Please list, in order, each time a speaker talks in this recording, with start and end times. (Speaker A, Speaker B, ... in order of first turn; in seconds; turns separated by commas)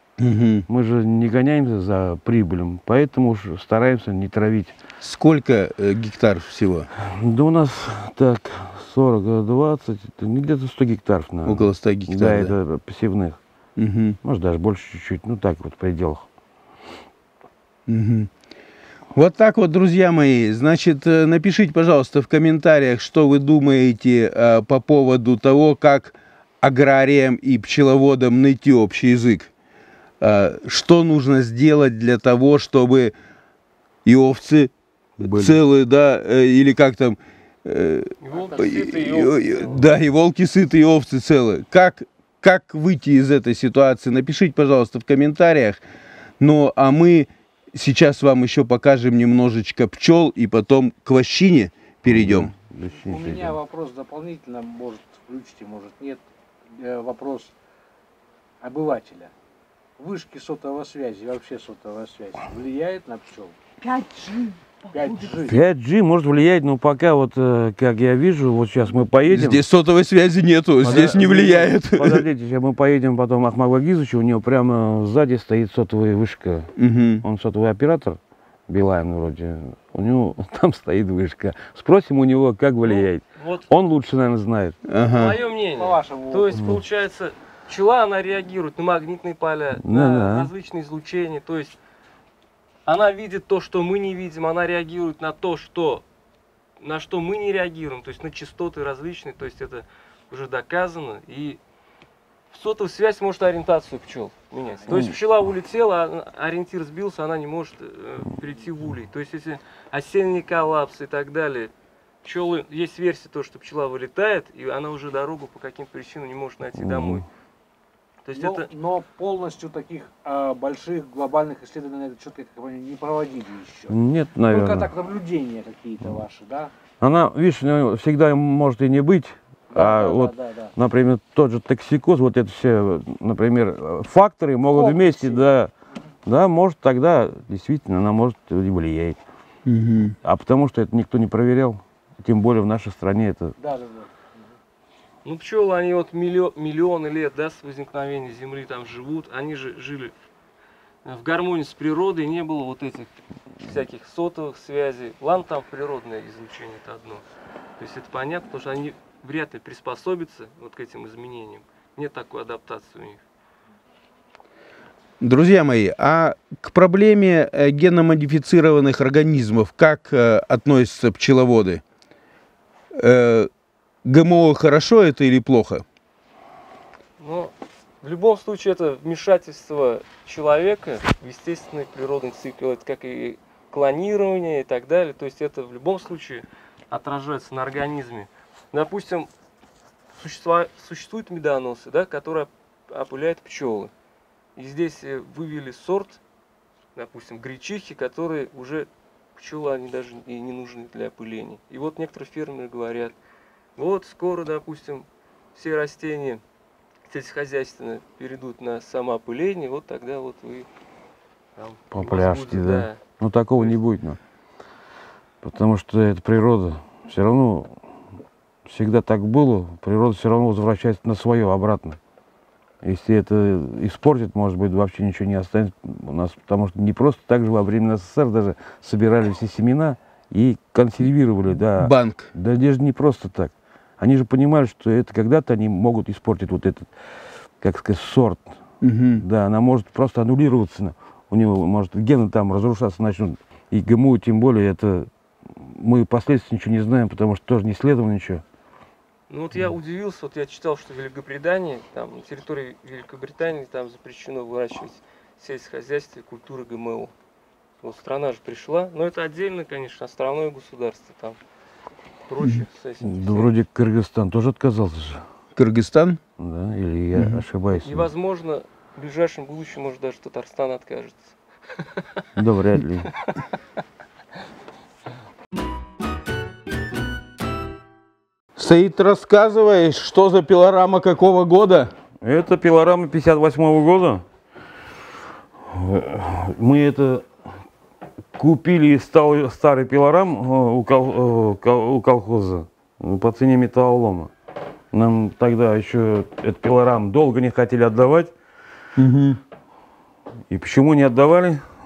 Speaker A: 0.2-0.7, Speaker B: 0.7-4.7, Speaker A: 5.0-6.9, Speaker B: 7.0-13.4, Speaker A: 11.4-12.5, Speaker A: 13.8-14.2, Speaker B: 14.2-16.2, Speaker A: 17.9-18.3, Speaker A: 19.1-29.5, Speaker A: 30.2-33.1, Speaker A: 34.0-45.8, Speaker B: 35.2-35.6, Speaker C: 38.2-39.9, Speaker A: 46.4-52.5, Speaker B: 52.1-53.6, Speaker D: 52.9-56.2, Speaker D: 56.8-57.5, Speaker D: 58.6-59.3, Speaker D: 60.0-64.3, Speaker D: 64.9-65.6, Speaker B: 65.4-69.6, Speaker A: 69.3-72.2, Speaker B: 70.8-84.8, Speaker A: 76.8-77.2, Speaker C: 82.8-83.7, Speaker A: 84.9-85.4, Speaker C: 85.1-91.8, Speaker D: 85.8-86.7, Speaker B: 86.5-86.8, Speaker B: 89.8-90.5, Speaker C: 92.8-96.0, Speaker C: 96.8-101.6, Speaker C: 102.5-111.7, Speaker B: 104.9-105.2, Speaker C: 112.2-117.2, Speaker B: 116.8-117.2, Speaker C: 118.2-118.7, Speaker D: 118.3-126.7, Speaker B: 123.9-124.9, Speaker B: 127.0-135.7, Speaker D: 129.7-130.7, Speaker D: 134.7-135.4, Speaker B: 136.2-139.2, Speaker A: 139.7-140.2, Speaker B: 140.2-143.5, Speaker D: 143.6-144.5, Speaker C: 145.2-150.1, Speaker C: 151.0-157.2, Speaker C: 157.8-163.2, Speaker A: 165.2-171.8, Speaker A: 172.9-173.5, Speaker A: 174.0-175.8, Speaker C: 177.2-189.3, Speaker C: 190.1-193.9, Speaker C: 194.6-196.2, Speaker C: 196.9-203.1, Speaker C: 203.8-206.4, Speaker C: 207.1-210.7, Speaker C: 211.6-213.0, Speaker B: 211.9-214.2, Speaker B: 215.4-217.7, Speaker B: 218.6-222.0, Speaker B: 222.8-236.9, Speaker A: 231.7-232.3, Speaker B: 237.6-238.6, Speaker A: 238.8-239.2, Speaker B: 239.2-248.4, Speaker C: 249.3-257.1, Speaker C: 257.8-261.4, Speaker C: 262.3-263.5, Speaker B: 263.0-265.2, Speaker A: 265.6-266.2, Speaker B: 266.4-268.1, Speaker A: 267.1-267.4, Speaker C: 267.8-272.2, Speaker B: 272.4-273.1, Speaker C: 273.1-273.3, Speaker A: 278.6-281.9, Speaker B: 282.2-284.2, Speaker B: 285.6-287.3, Speaker B: 288.4-294.3, Speaker B: 294.9-298.3, Speaker A: 299.0-299.4, Speaker B: 300.5-301.6